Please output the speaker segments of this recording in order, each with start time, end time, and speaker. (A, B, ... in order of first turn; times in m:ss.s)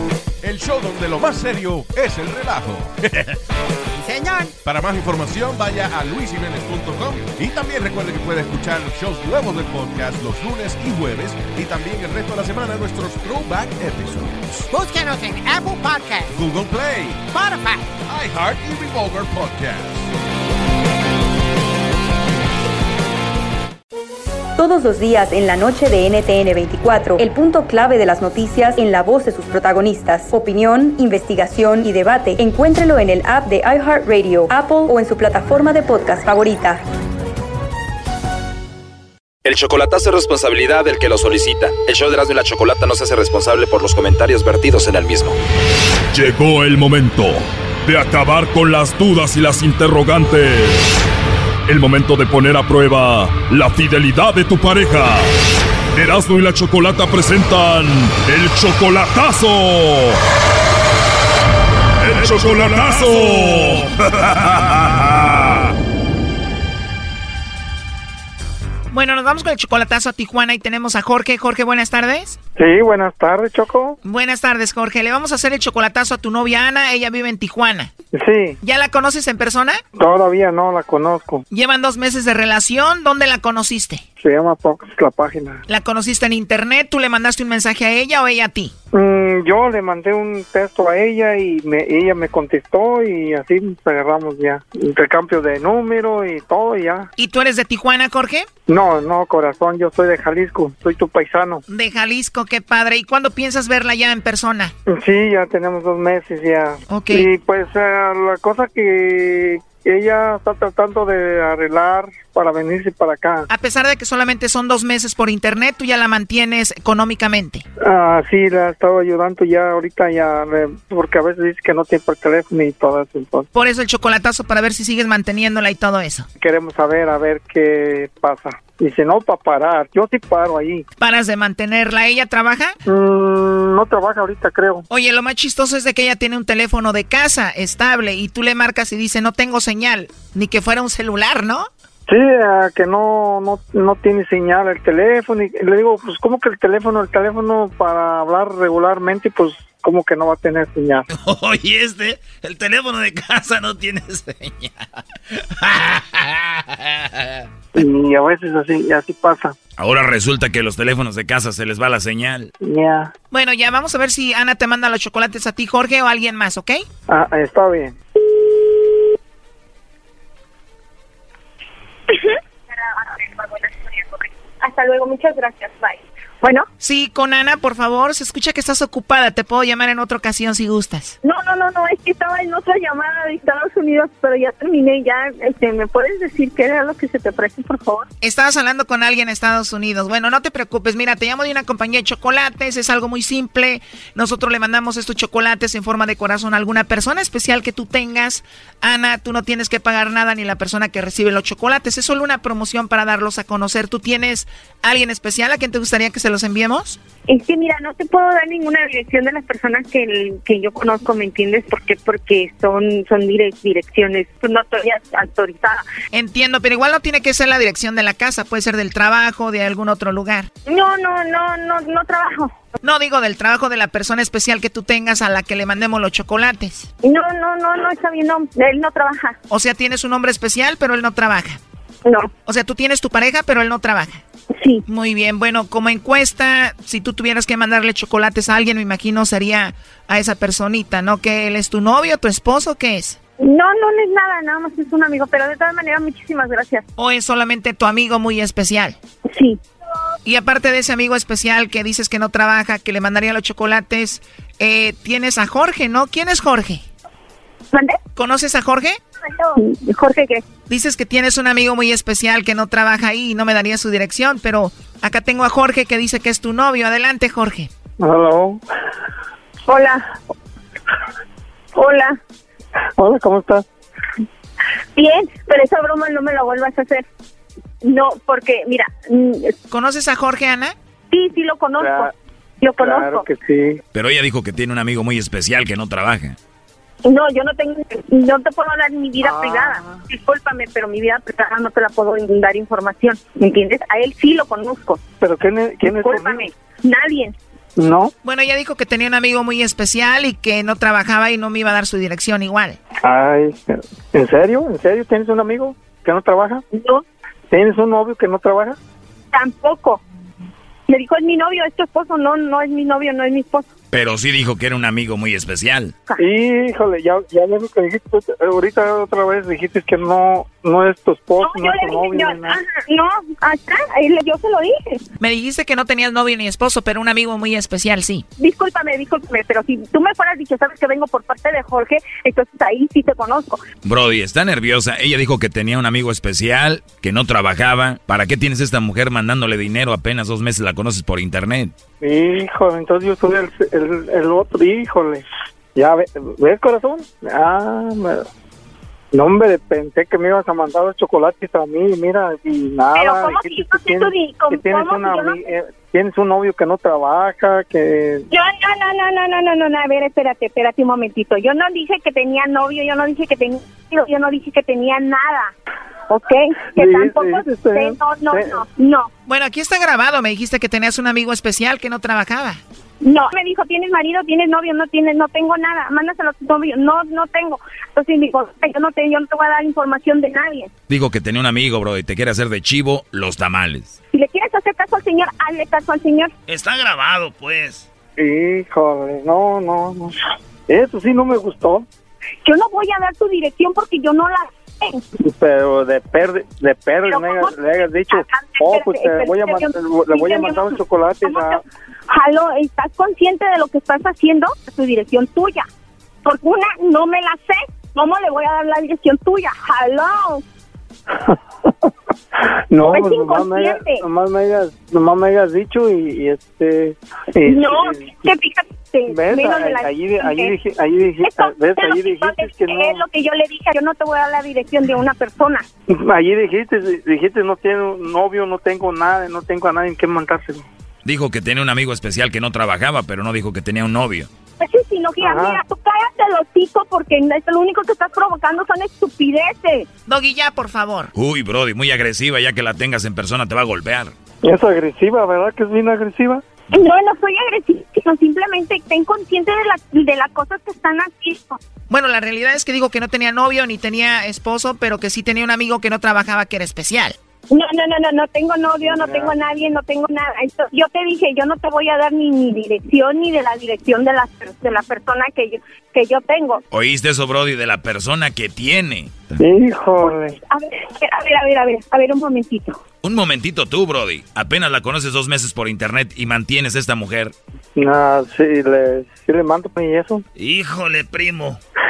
0:00.4-0:03.4 A
0:03.9-0:04.5 B
0:04.6-0:14.7 A
0:14.7-0:16.3 B
0:16.3-0:17.3 A
0:17.3-0:17.9 B
0:18.1-0:20.1 A
0:24.6-0:36.8 C
0:39.4-0:45.4 D
0:46.1-0:51.0 E
0:51.7-0:55.3 E
0:56.0-1:00.2 E
1:02.0-1:05.7 E
1:08.9-1:12.4 F
1:12.6-1:14.0 G
1:14.0-1:17.9 F
1:18.1-1:18.6 G
1:18.6-1:19.8 F
1:20.0-1:21.4 G
1:21.5-1:24.0 F
1:24.2-1:25.6 G
1:25.7-1:28.7 F
1:28.9-1:37.1 G
1:37.2-1:38.5 F
1:38.7-1:41.6 G
1:41.7-1:44.7 F
1:44.9-1:53.5 G
1:46.9-1:47.3 F
1:53.5-1:57.6 F
1:57.8-2:03.5 G
2:03.5-2:06.3 F
2:06.4-2:10.9 G
2:11.0-2:12.8 F
2:12.9-2:14.9 G
2:14.9-2:21.7 F
2:22.1-2:31.1 G
2:31.1-2:34.9 H
2:35.6-2:37.4 H
2:37.8-2:39.6 G
2:39.8-2:42.5 H
2:42.6-2:43.1 G
2:43.3-2:46.8 F
2:47.1-2:48.0 G
2:52.1-2:52.4 I
2:52.9-2:56.6 I
2:56.8-3:01.2 F
3:01.2-3:08.1 I
3:08.2-3:27.0 F
3:27.3-3:35.8 I
3:36.1-3:40.5 F
3:40.7-3:42.5 I
3:42.8-3:46.9 F
3:47.0-3:49.4 I
3:49.5-3:51.6 F
3:52.0-3:52.3 I
3:52.4-3:54.2 F
3:54.6-3:54.8 I
3:54.9-4:03.2 F
4:03.4-4:06.8 I
4:07.0-4:09.0 F
4:09.3-4:09.6 I
4:10.2-4:16.8 F
4:17.7-4:18.0 I
4:18.2-4:19.0 F
4:19.4-4:20.4 I
4:20.7-4:27.7 F
4:28.0-4:28.6 G
4:29.7-4:30.0 I
4:31.8-4:32.2 I
4:33.0-4:33.6 G
4:35.0-4:37.0 I
4:37.8-4:39.5 I
4:39.7-4:40.7 F
4:41.1-4:43.3 I
4:41.8-4:42.1 G
4:42.8-4:43.8 G
4:43.9-4:46.4 H
4:47.0-4:55.0 I
4:49.2-4:50.0 G
4:55.2-4:56.4 G
4:55.8-4:57.4 I
4:57.8-4:58.1 G
4:58.2-5:02.8 F
5:03.0-5:06.6 G
5:06.7-5:07.0 I
5:07.5-5:08.8 G
5:09.3-5:10.0 I
5:10.9-5:13.7 I
5:13.9-5:15.9 H
5:16.2-5:22.6 G
5:21.4-5:25.0 I
5:25.2-5:28.2 F
5:28.4-5:33.6 I
5:33.8-5:41.7 H
5:42.0-5:45.2 G
5:45.8-5:48.2 G
5:49.1-5:58.3 G
5:52.9-5:55.4 I
5:58.3-6:05.5 I
6:06.1-6:09.1 I
6:06.8-6:08.6 G
6:09.3-6:12.6 F
6:13.0-6:20.7 I
6:20.9-6:24.0 H
6:24.1-6:26.3 I
6:26.5-6:27.8 H
6:28.2-6:30.2 G
6:30.7-6:31.9 G
6:32.4-6:35.0 I
6:35.2-6:41.6 G
6:37.0-6:45.6 I
6:46.2-6:50.4 I
6:52.5-6:58.3 G
6:52.9-6:54.0 I
6:57.4-7:00.6 I
6:59.1-7:03.0 G
7:01.2-7:05.6 I
7:05.9-7:10.6 G
7:11.0-7:14.3 H
7:14.6-7:19.9 I
7:15.2-7:15.6 G
7:20.1-7:21.1 F
7:21.1-7:24.1 H
7:24.4-7:26.4 G
7:26.7-7:31.6 I
7:31.9-7:37.2 F
7:37.5-7:46.6 I
7:38.8-7:39.4 G
7:46.7-7:49.4 H
7:49.4-7:50.4 G
7:50.5-7:52.8 I
7:53.0-7:57.3 H
7:57.8-8:00.2 G
8:00.4-8:01.6 H